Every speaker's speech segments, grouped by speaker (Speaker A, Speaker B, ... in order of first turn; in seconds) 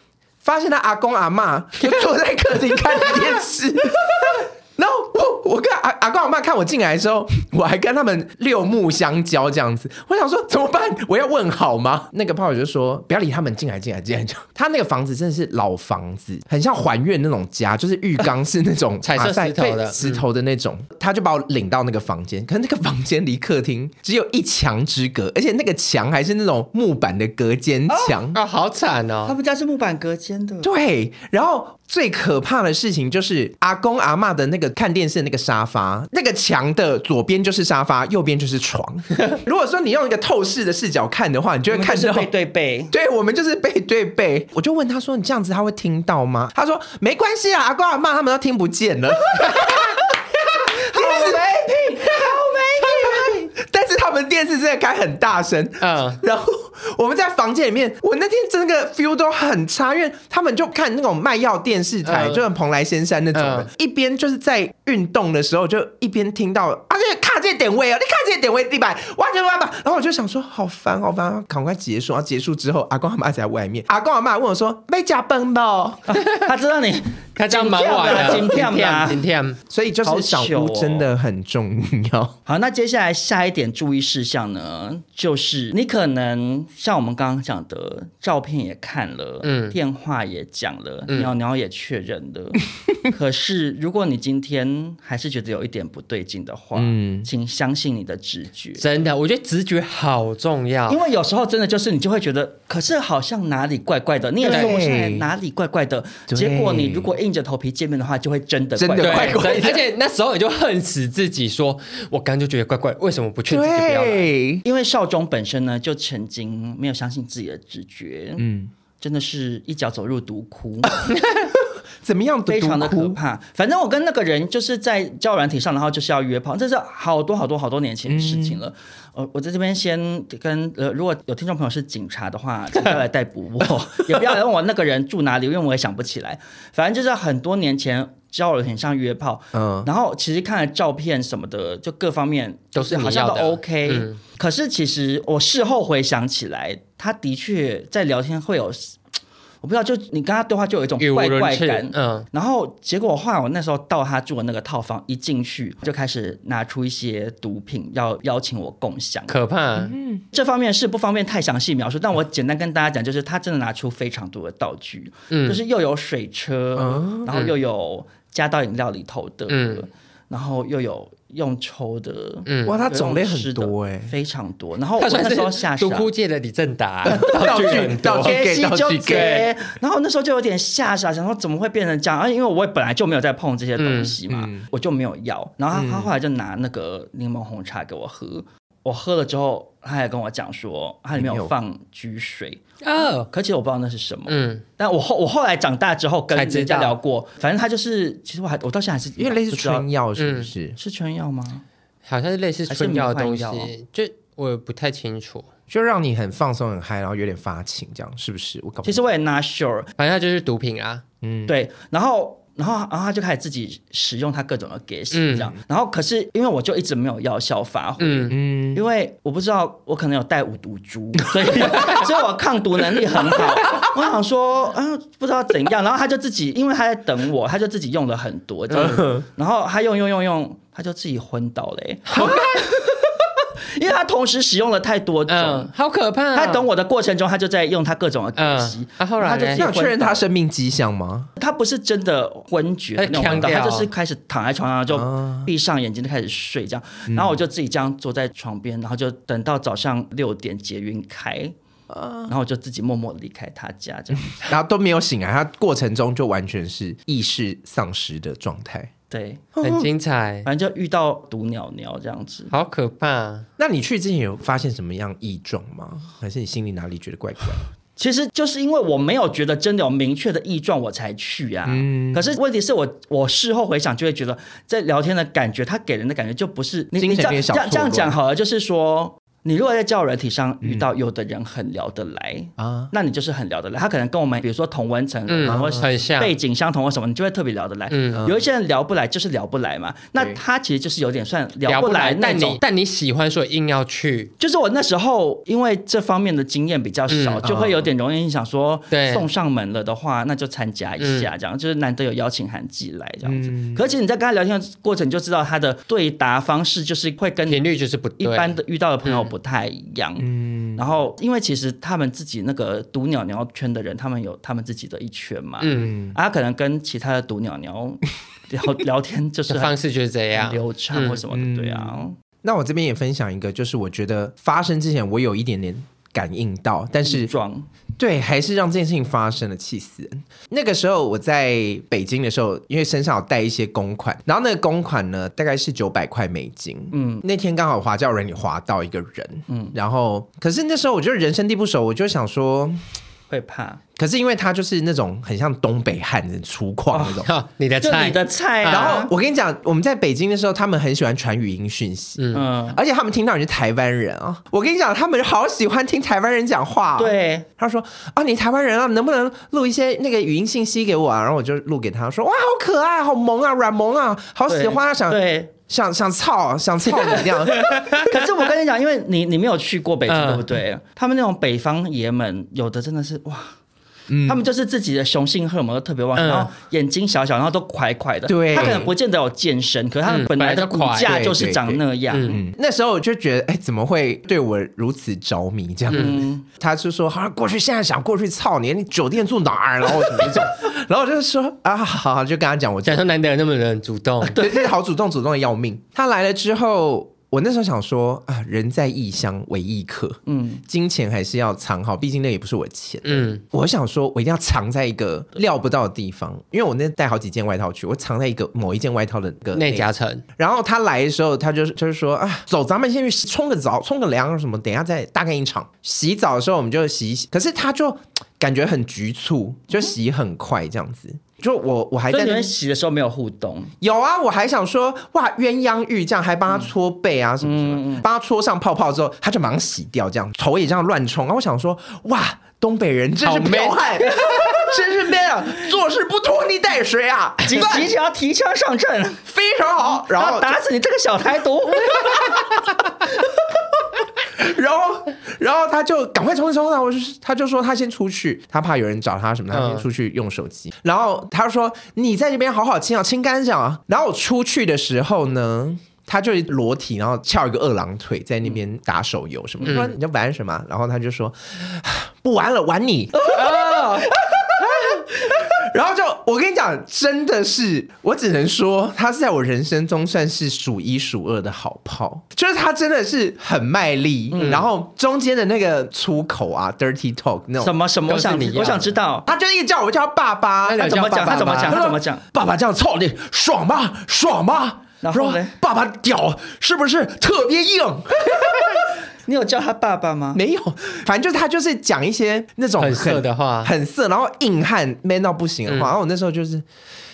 Speaker A: 0.4-28.4, 30.6-42.3, 42.9-76.1, 78.2-78.4, 79.7-82.3, 96.8-97.3, 104.4-105.3, 106.3-107.1, 108.8-109.8, 113.5-114.6, 118.4-118.7, 121.4-123.2, 128.1-128.6, 139.5-139.9, 159.8-160.2, 166.8-167.3, 172.7-174.1, 177.1-179.4, 184.3-184.7, 185.7-186.1, 191.2-191.5, 199.2-200.8, 205.7-209.1, 211.2-211.5, 218.3-218.8, 221.6-222.1, 223.4-223.9, 228.7-229.3, 232.1-232.7, 239.6-241.3, 244.9-245.5, 247.1-247.4, 251.9-252.3, 254.4-258.9, 259.6-259.9, 263.6-267.7, 271.7-272.3, 277.0-278.2, 280.6-280.9, 282.6-282.9, 285.4-285.8, 288.1-288.4, 290.2-290.4, 297.4-297.9, 303.2-303.9, 310.2-310.8, 321.3-327.3, 328.0-342.8, 344.0-347.3, 348.6-367.8, 374.1-374.4, 378.3-378.9, 381.1-393.1, 394.3-422.5, 423.8-437.9, 439.3-440.6, 441.9-442.6, 444.2-477.7, 479.3-480.9, 481.6-488.8, 490.4-496.6
Speaker B: 19.0-20.2, 28.3-29.4, 55.8-56.2, 62.0-62.4, 63.3-63.7, 77.4-79.6, 89.4-89.8, 98.8-101.0, 104.4-104.8, 109.0-114.3, 142.7-144.2, 151.0-152.3, 159.3-159.9, 165.3-165.6, 169.5-169.8, 172.5-172.8, 175.0-178.4, 179.1-179.5, 183.8-184.2, 192.8-193.3, 194.3-194.6, 196.3-197.0, 200.2-200.5, 202.1-205.5, 210.0-211.0, 215.1-215.5, 218.0-218.4, 228.7-229.1, 235.3-236.7, 238.4-239.7, 243.0-243.9, 259.6-260.5, 262.5-263.5, 285.3-286.3, 287.9-288.2, 291.7-294.3, 297.1-297.5, 298.9-299.3, 301.0-301.3, 307.5-309.3, 315.6-316.0, 319.5-321.2, 347.2-349.0, 352.2-352.4, 370.1-370.5, 376.2-376.5, 380.1-381.3, 382.1-382.4, 392.9-394.4, 403.1-403.4, 409.6-410.2, 433.2-433.9, 449.5-449.9, 459.6-459.9, 463.3-464.2, 474.4-474.7, 478.1-478.9, 480.7-481.9, 492.8-493.7, 495.7-495.9
Speaker C: 27.9-28.2, 29.3-30.7, 41.7-42.9, 50.7-53.4, 76.1-79.2, 80.0-81.1, 82.5-98.8, 100.9-109.7, 114.6-118.5, 119.0-121.0, 122.5-149.0, 149.6-159.4, 160.3-176.1, 177.5-192.6, 193.3-199.9, 200.8-201.6, 202.7-203.7, 208.8-209.9, 211.5-233.1, 233.7-235.7, 236.3-240.2, 241.4-251.5, 252.3-254.5, 259.1-259.5, 260.5-262.5, 268.0-292.6, 294.4-307.6, 308.2-319.8, 320.3-322.1, 327.1-327.7, 336.9-337.2, 339.5-339.8, 343.3-343.8, 346.9-347.2, 347.8-349.1, 352.3-352.8, 357.0-357.5, 364.5-365.5, 367.6-373.6, 374.2-382.4, 385.9-386.4, 394.3-394.7, 400.3-400.6, 422.1-423.7, 427.4-428.1, 434.0-434.7, 437.4-439.2, 439.9-442.4, 463.2-463.8, 474.3-474.7, 477.6-479.3, 480.8-482.2, 485.0-485.6, 489.2-490.4